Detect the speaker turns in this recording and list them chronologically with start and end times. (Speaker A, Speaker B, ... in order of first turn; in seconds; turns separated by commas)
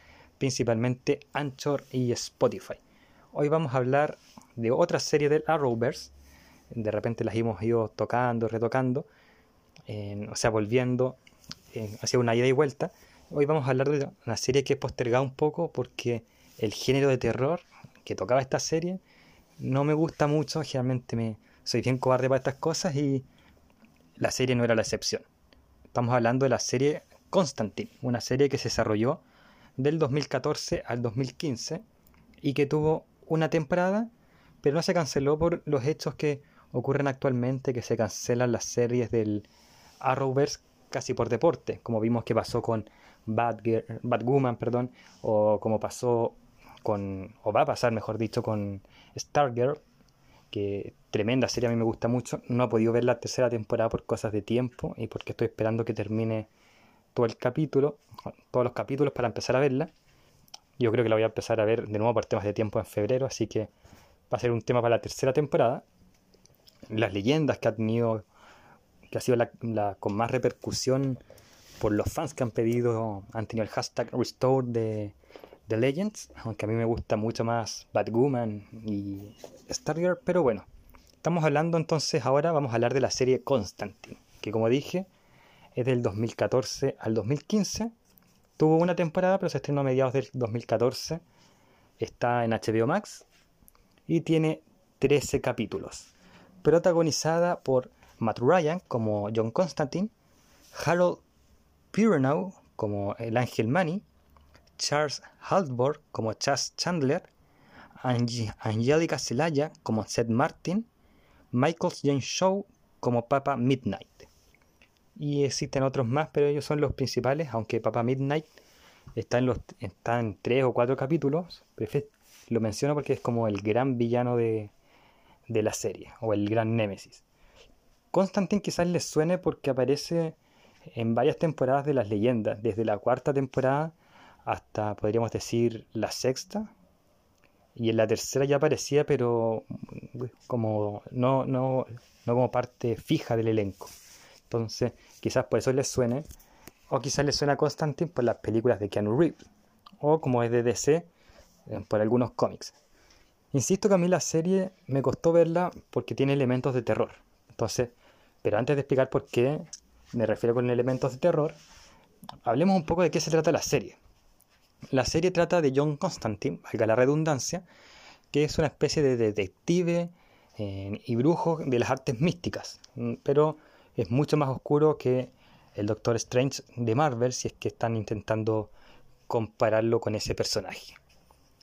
Speaker A: 0.4-2.8, Speaker A: 3.3-6.1, Speaker A: 6.7-9.1, Speaker A: 9.9-11.2, Speaker A: 11.7-19.0, Speaker A: 19.6-23.2, Speaker A: 24.2-25.2, Speaker A: 25.9-29.2, Speaker A: 29.8-31.8, Speaker A: 32.4-34.1, Speaker A: 34.6-39.5, Speaker A: 40.0-49.8, Speaker A: 50.5-56.5, Speaker A: 57.1-59.9, Speaker A: 60.8-63.7, Speaker A: 64.3-65.8, Speaker A: 66.9-68.2, Speaker A: 69.1-71.2, Speaker A: 71.8-75.1, Speaker A: 75.7-80.7, Speaker A: 81.2-85.1, Speaker A: 85.8-87.9, Speaker A: 88.6-91.2, Speaker A: 92.0-93.2, Speaker A: 94.1-96.1, Speaker A: 96.6-100.1, Speaker A: 100.7-101.2, Speaker A: 101.9-104.0, Speaker A: 104.8-107.3, Speaker A: 108.0-110.9, Speaker A: 111.5-114.3, Speaker A: 115.2-118.5, Speaker A: 119.1-124.7, Speaker A: 125.5-127.2, Speaker A: 128.1-130.4, Speaker A: 130.9-136.7, Speaker A: 137.8-143.9, Speaker A: 144.5-146.2, Speaker A: 146.9-149.4, Speaker A: 150.0-151.1, Speaker A: 151.7-152.7, Speaker A: 153.5-161.6, Speaker A: 162.4-164.0, Speaker A: 164.9-167.6, Speaker A: 168.3-178.7, Speaker A: 179.3-181.0